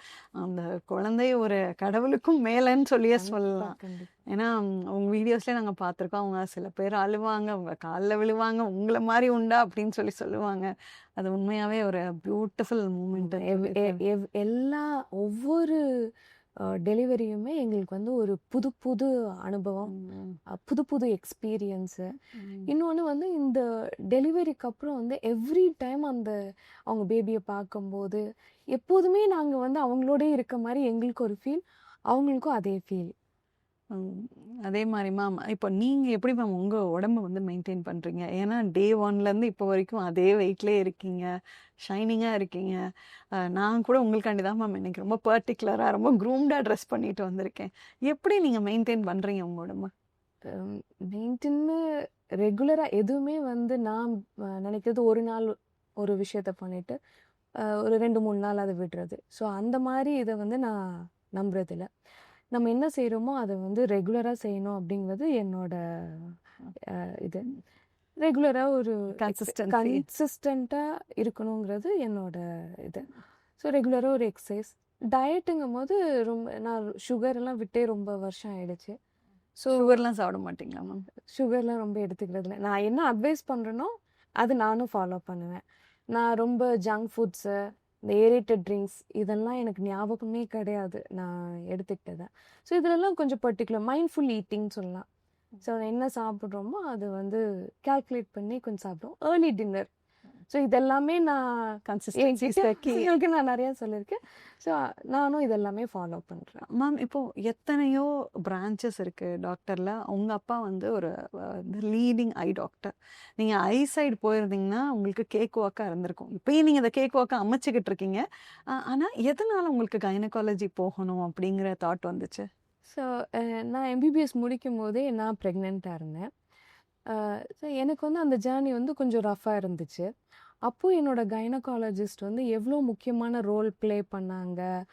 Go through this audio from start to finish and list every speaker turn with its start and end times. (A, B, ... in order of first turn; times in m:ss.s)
0:00.4-0:03.7 A
0:03.2-0:04.1 B
0:04.3-0:14.0 A
0:13.2-0:15.8 B
0:16.6-0:19.9 B
0:19.9-0:20.4 A
0:20.5-0:22.1 B
0:22.4-0:22.7 A
0:22.7-0:26.4 B
0:26.9-0:28.2 B
0:28.7-0:33.1 B
0:33.9-0:41.3 A
0:41.8-0:42.8 A
0:43.4-0:49.9 A
0:50.5-0:51.8 B
0:52.4-0:57.0 B
0:57.6-1:01.9 B
1:02.5-1:07.4 B
1:08.2-1:13.1 B
1:09.1-1:10.0 A
1:13.6-1:18.9 B
1:19.6-1:19.9 B
1:19.7-1:21.0 A
1:21.3-1:25.6 B
1:26.1-1:27.6 B
1:28.1-1:35.1 B
1:35.6-1:39.9 B
1:40.5-1:46.6 B
1:41.9-1:43.1 A
1:46.6-2:02.5 A
2:02.9-2:06.3 B
2:07.1-2:10.1 B
2:10.6-2:14.6 B